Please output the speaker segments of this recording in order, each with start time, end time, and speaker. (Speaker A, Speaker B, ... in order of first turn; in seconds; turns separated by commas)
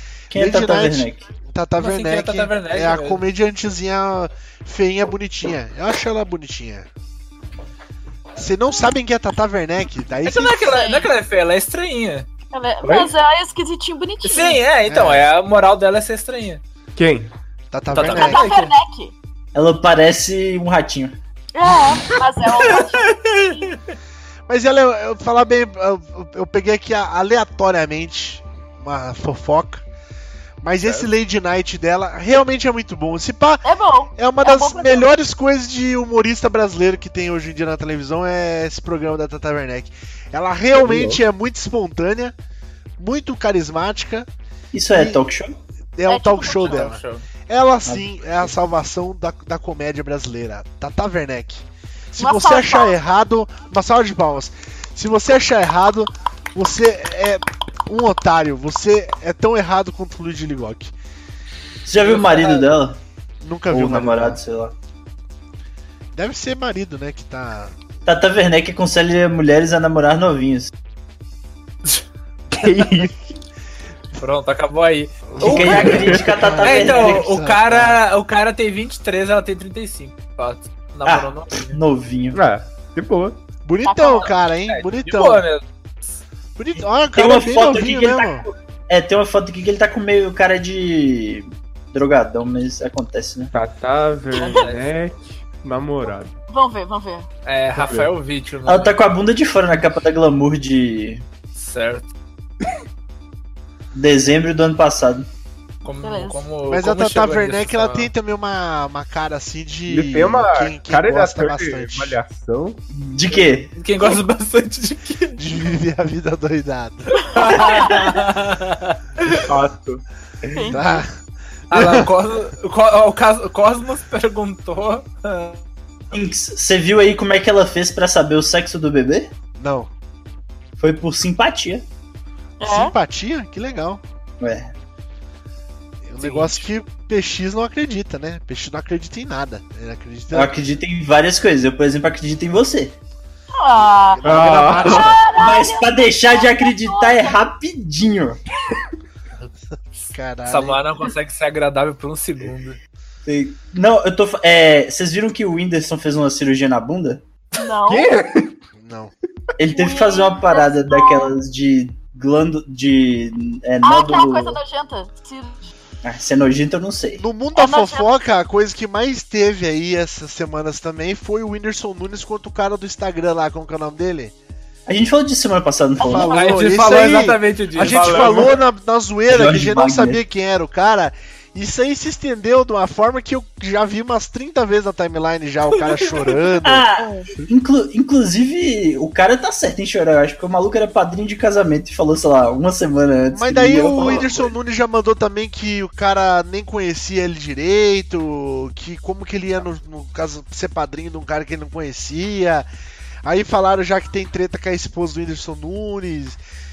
Speaker A: 0.3-1.2, Speaker B: 0.3-6.9, Speaker C: 1.8-3.2, Speaker B: 8.4-10.8, Speaker C: 10.3-12.3, Speaker D: 10.7-11.1, Speaker D: 12.5-14.6, Speaker E: 12.8-13.1, Speaker C: 14.2-16.6, Speaker B: 14.9-15.3, Speaker E: 17.0-17.3, Speaker B: 17.7-18.4, Speaker C: 17.9-18.7, Speaker D: 18.0-19.1, Speaker A: 19.5-21.2, Speaker D: 21.6-23.7, Speaker C: 22.6-23.8, Speaker B: 24.5-29.8, Speaker B: 30.6-33.6, Speaker D: 33.6-35.1, Speaker B: 34.2-42.3, Speaker E: 40.8-41.2, Speaker B: 43.0-44.3, Speaker A: 44.7-45.5, Speaker B: 44.9-45.2, Speaker B: 46.0-60.9, Speaker D: 46.1-46.9, Speaker C: 46.6-47.2, Speaker A: 47.9-48.5, Speaker D: 52.2-52.9, Speaker A: 61.9-63.0, Speaker C: 62.0-62.6, Speaker B: 63.4-64.4, Speaker A: 63.7-64.7, Speaker B: 66.2-67.8, Speaker A: 68.0-70.7, Speaker E: 72.5-73.3, Speaker C: 74.2-76.0, Speaker B: 75.3-78.0, Speaker A: 75.4-77.3, Speaker E: 75.4-76.4, Speaker C: 76.6-81.8, Speaker A: 81.0-82.4, Speaker E: 82.3-83.4, Speaker B: 83.7-85.5, Speaker D: 83.9-84.3, Speaker C: 84.7-85.6, Speaker B: 86.6-88.5, Speaker A: 87.2-93.5, Speaker E: 93.5-96.3, Speaker C: 94.4-94.9, Speaker D: 96.5-97.3, Speaker C: 97.5-99.0, Speaker E: 97.8-98.1, Speaker A: 98.7-101.2, Speaker C: 101.5-102.1, Speaker A: 103.9-105.3, Speaker C: 105.8-108.1, Speaker D: 106.0-106.4, Speaker B: 106.7-112.2, Speaker E: 109.9-112.8, Speaker A: 112.9-113.7, Speaker C: 113.7-115.4, Speaker B: 115.4-117.4, Speaker C: 117.3-119.4, Speaker D: 117.4-117.9, Speaker E: 119.5-120.0, Speaker D: 120.5-121.0, Speaker B: 120.7-121.1, Speaker B: 121.7-122.1, Speaker C: 121.7-125.6, Speaker A: 126.1-129.3, Speaker B: 129.6-129.9, Speaker A: 130.8-131.8, Speaker D: 132.6-132.9, Speaker B: 132.6-134.0, Speaker A: 134.4-134.7, Speaker B: 136.1-140.5, Speaker C: 136.2-136.7, Speaker A: 140.3-143.0, Speaker D: 143.5-147.4, Speaker B: 144.2-145.3, Speaker E: 144.2-145.2, Speaker A: 145.3-148.4, Speaker B: 150.1-150.8, Speaker C: 150.5-152.8, Speaker A: 153.2-157.2, Speaker D: 157.6-158.1, Speaker E: 157.9-158.6, Speaker B: 158.8-159.1, Speaker A: 159.6-164.6, Speaker D: 159.7-161.3, Speaker D: 163.8-165.7, Speaker A: 166.0-167.2, Speaker B: 167.2-174.3, Speaker D: 167.5-168.1, Speaker A: 174.9-176.6, Speaker B: 176.0-186.8, Speaker C: 176.2-178.6, Speaker A: 177.8-178.3, Speaker A: 179.3-180.2, Speaker A: 186.7-194.5, Speaker D: 187.0-187.3, Speaker B: 193.3-202.7, Speaker B: 203.2-206.4